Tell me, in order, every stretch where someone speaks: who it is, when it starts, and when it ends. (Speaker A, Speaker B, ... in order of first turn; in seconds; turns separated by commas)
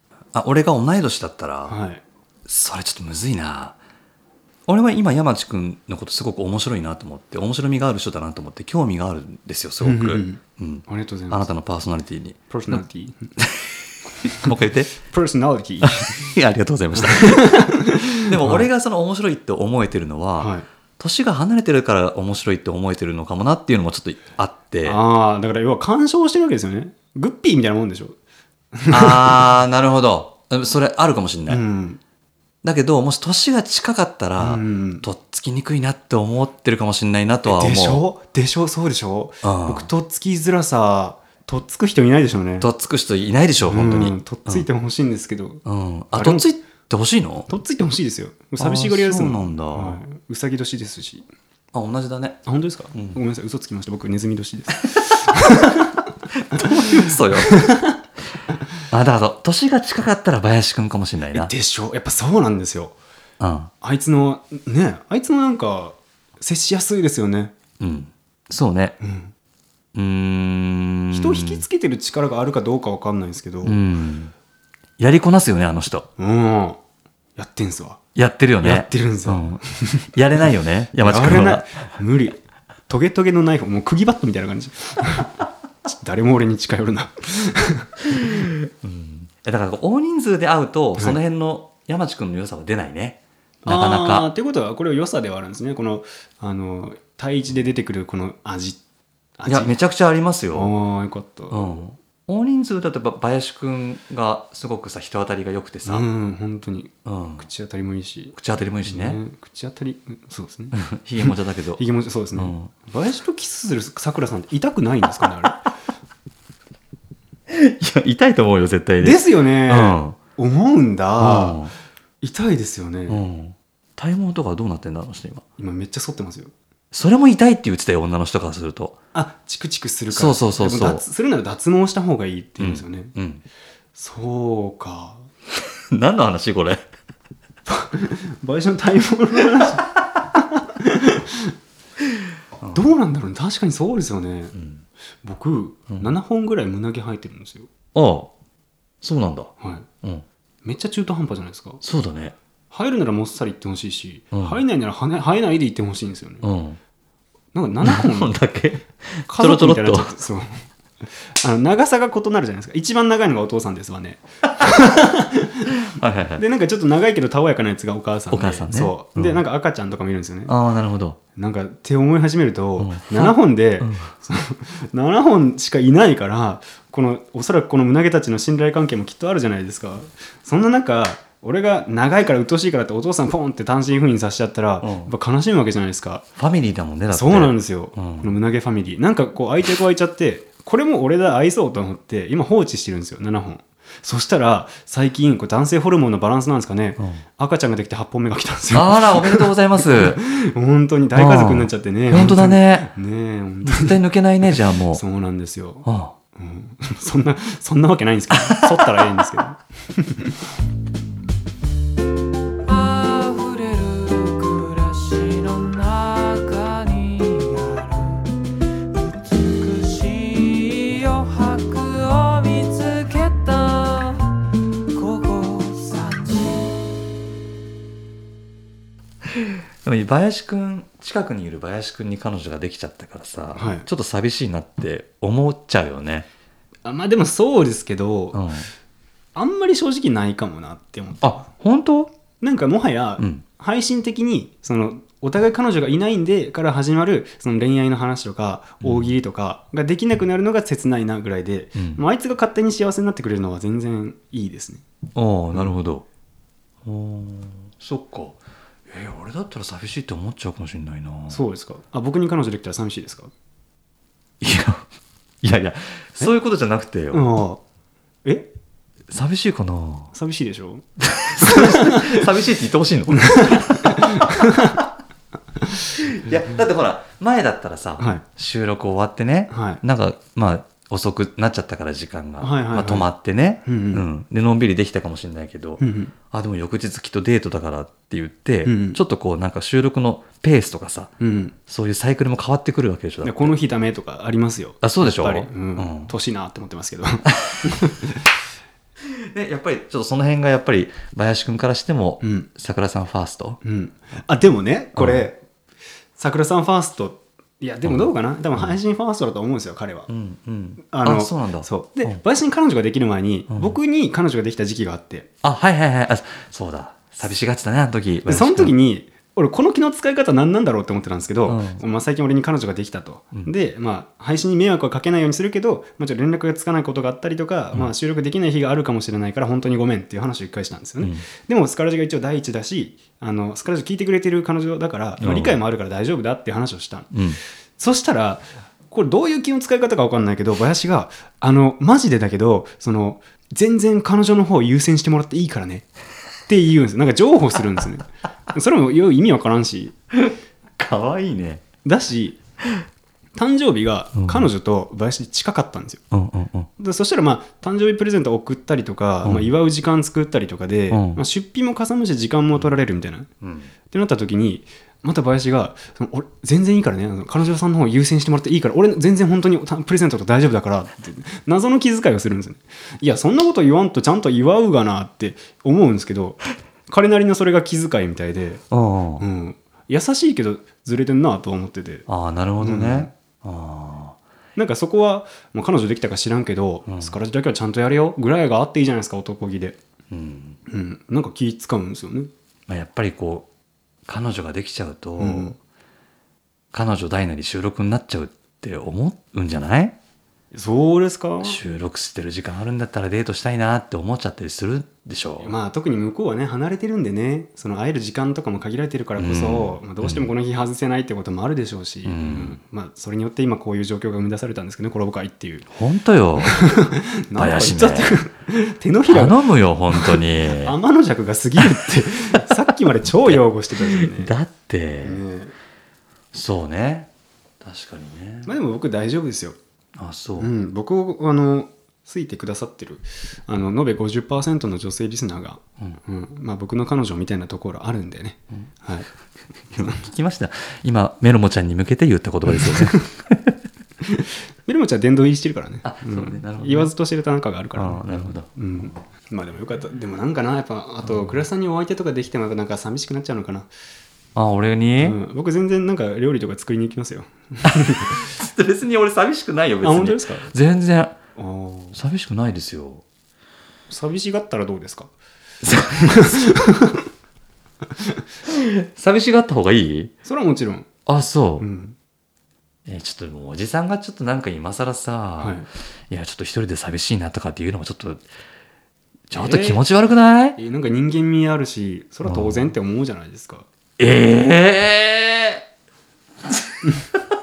Speaker A: 0.3-1.8, Speaker B: 1.7-2.0, Speaker A: 2.5-3.8, Speaker A: 4.7-12.8, Speaker B: 9.8-11.5, Speaker B: 12.5-13.3, Speaker A: 13.4-14.9, Speaker B: 14.3-16.3, Speaker A: 16.1-25.0, Speaker B: 16.9-18.7, Speaker B: 20.4-20.7, Speaker B: 24.8-28.2, Speaker B: 28.7-29.5, Speaker A: 28.9-31.6, Speaker B: 31.5-32.0, Speaker A: 32.6-38.0, Speaker B: 34.4-35.0, Speaker B: 37.4-42.7, Speaker A: 39.4-39.9, Speaker A: 42.6-44.6, Speaker B: 43.7-45.6, Speaker A: 45.6-47.5, Speaker B: 46.1-46.5, Speaker B: 47.5-51.3, Speaker A: 48.6-50.0, Speaker A: 51.7-53.2, Speaker B: 52.5-58.0, Speaker A: 56.5-57.6, Speaker A: 58.9-61.5, Speaker B: 61.3-63.0, Speaker A: 63.4-63.7, Speaker B: 63.8-67.5, Speaker A: 67.8-69.0, Speaker B: 69.0-69.3, Speaker A: 69.9-71.6, Speaker B: 71.1-73.8, Speaker A: 73.6-74.3, Speaker A: 75.0-76.1, Speaker B: 76.2-76.8, Speaker B: 77.4-78.0, Speaker A: 78.1-81.9, Speaker B: 78.6-80.1, Speaker B: 81.0-82.4, Speaker B: 82.9-88.4, Speaker A: 88.2-94.3, Speaker B: 93.6-98.8, Speaker B: 99.4-99.8, Speaker A: 99.5-100.7, Speaker B: 100.5-101.8, Speaker A: 101.5-106.0, Speaker B: 105.8-115.7, Speaker A: 107.0-107.5, Speaker A: 108.3-109.2, Speaker A: 110.7-111.8, Speaker A: 112.3-112.7, Speaker A: 117.5-120.2, Speaker B: 119.0-121.7, Speaker A: 121.2-121.7, Speaker B: 122.2-123.2, Speaker A: 123.1-125.4, Speaker B: 125.6-126.5, Speaker A: 126.9-129.0, Speaker B: 129.1-133.1, Speaker A: 130.1-131.0, Speaker A: 132.6-133.4, Speaker B: 133.9-135.3, Speaker A: 135.6-136.8, Speaker B: 137.7-141.5, Speaker B: 142.7-144.6, Speaker A: 144.5-144.8, Speaker B: 145.2-147.7, Speaker A: 147.9-148.3, Speaker A: 149.0-150.2, Speaker B: 149.6-149.9, Speaker B: 150.6-151.8, Speaker A: 151.8-152.3, Speaker B: 152.7-156.4, Speaker A: 154.3-154.6, Speaker A: 156.4-156.8, Speaker B: 157.5-158.4, Speaker A: 157.8-160.1, Speaker B: 159.3-165.8, Speaker A: 165.9-166.4, Speaker B: 166.4-170.5, Speaker A: 168.3-169.4, Speaker A: 170.5-171.2, Speaker B: 171.3-186.3, Speaker A: 172.8-174.1, Speaker A: 184.8-185.1, Speaker A: 186.4-188.3, Speaker B: 187.1-204.0, Speaker A: 197.0-197.2, Speaker A: 198.7-200.2, Speaker A: 201.1-202.9, Speaker A: 203.6-205.0, Speaker B: 204.9-210.4, Speaker A: 205.8-206.1, Speaker A: 208.3-209.1, Speaker C: 212.7-218.3, Speaker C: 219.0-224.3, Speaker C: 224.9-226.7, Speaker A: 229.3-236.3, Speaker B: 233.5-233.9, Speaker B: 236.8-238.4, Speaker A: 238.3-238.7, Speaker B: 239.3-241.3, Speaker A: 241.2-242.1, Speaker B: 242.4-254.8, Speaker A: 248.8-249.2, Speaker A: 251.7-252.0, Speaker A: 255.1-256.0, Speaker A: 256.8-261.4, Speaker B: 261.3-263.3, Speaker A: 264.4-264.9, Speaker A: 265.4-267.2, Speaker B: 267.1-267.6, Speaker B: 268.2-268.5, Speaker A: 269.1-270.1, Speaker B: 270.1-272.3, Speaker A: 271.0-274.8, Speaker B: 273.1-274.8, Speaker B: 275.6-276.4, Speaker A: 276.0-291.1, Speaker B: 279.5-279.8, Speaker B: 282.4-283.1, Speaker B: 283.6-284.0, Speaker B: 285.8-286.1, Speaker B: 288.6-289.0, Speaker B: 291.2-291.5, Speaker A: 291.6-293.5, Speaker B: 293.2-298.2, Speaker A: 294.8-296.1, Speaker A: 299.3-303.6, Speaker B: 302.2-302.5, Speaker B: 303.6-305.4, Speaker A: 305.0-305.2, Speaker B: 306.2-310.1, Speaker A: 307.8-308.8, Speaker A: 310.1-312.2, Speaker B: 310.8-315.3, Speaker A: 313.5-313.8, Speaker A: 315.4-318.7, Speaker B: 318.2-337.1, Speaker A: 321.5-321.8, Speaker A: 331.0-331.2, Speaker A: 335.2-335.6, Speaker A: 337.1-337.4, Speaker B: 337.8-345.9, Speaker B: 346.5-349.9, Speaker A: 350.1-351.6, Speaker B: 351.8-352.4, Speaker B: 353.3-356.0, Speaker A: 354.2-354.5, Speaker A: 356.1-356.7, Speaker B: 356.8-363.3, Speaker A: 359.2-359.5, Speaker A: 360.9-361.2, Speaker A: 363.4-363.7, Speaker B: 363.9-378.6, Speaker A: 378.7-379.2, Speaker B: 379.2-382.1, Speaker A: 382.1-384.2, Speaker B: 382.6-383.1, Speaker B: 384.6-389.8, Speaker A: 386.9-387.2, Speaker A: 390.1-390.6, Speaker B: 390.7-392.3, Speaker A: 392.7-393.5, Speaker A: 394.1-395.6, Speaker B: 395.2-395.6, Speaker A: 396.7-400.0, Speaker B: 400.5-401.6, Speaker A: 401.4-405.5, Speaker B: 405.4-415.7, Speaker A: 409.2-410.3, Speaker A: 412.0-412.6, Speaker A: 415.7-416.6, Speaker B: 416.4-424.3, Speaker A: 417.4-418.2, Speaker A: 419.1-420.8, Speaker A: 423.2-425.2, Speaker B: 425.0-425.5, Speaker A: 426.3-428.5, Speaker B: 428.4-429.6, Speaker A: 429.9-430.5, Speaker B: 430.4-439.1, Speaker A: 439.7-443.5, Speaker B: 439.8-440.1, Speaker B: 442.5-443.1, Speaker B: 444.0-453.7, Speaker A: 445.8-446.9, Speaker A: 447.8-449.0, Speaker A: 451.0-451.4, Speaker A: 454.3-455.2, Speaker B: 455.0-458.3, Speaker A: 457.6-461.2, Speaker B: 459.8-460.5, Speaker B: 461.4-462.0, Speaker A: 461.9-463.0, Speaker B: 463.9-465.1, Speaker A: 465.6-466.4, Speaker B: 465.9-467.1, Speaker A: 468.5-470.1, Speaker B: 470.2-470.9, Speaker A: 471.1-471.6, Speaker B: 471.6-471.9, Speaker A: 472.9-478.3, Speaker B: 475.4-475.7, Speaker A: 479.3-480.6, Speaker B: 479.3-479.8, Speaker B: 480.6-483.6, Speaker A: 482.2-482.7, Speaker A: 484.0-485.6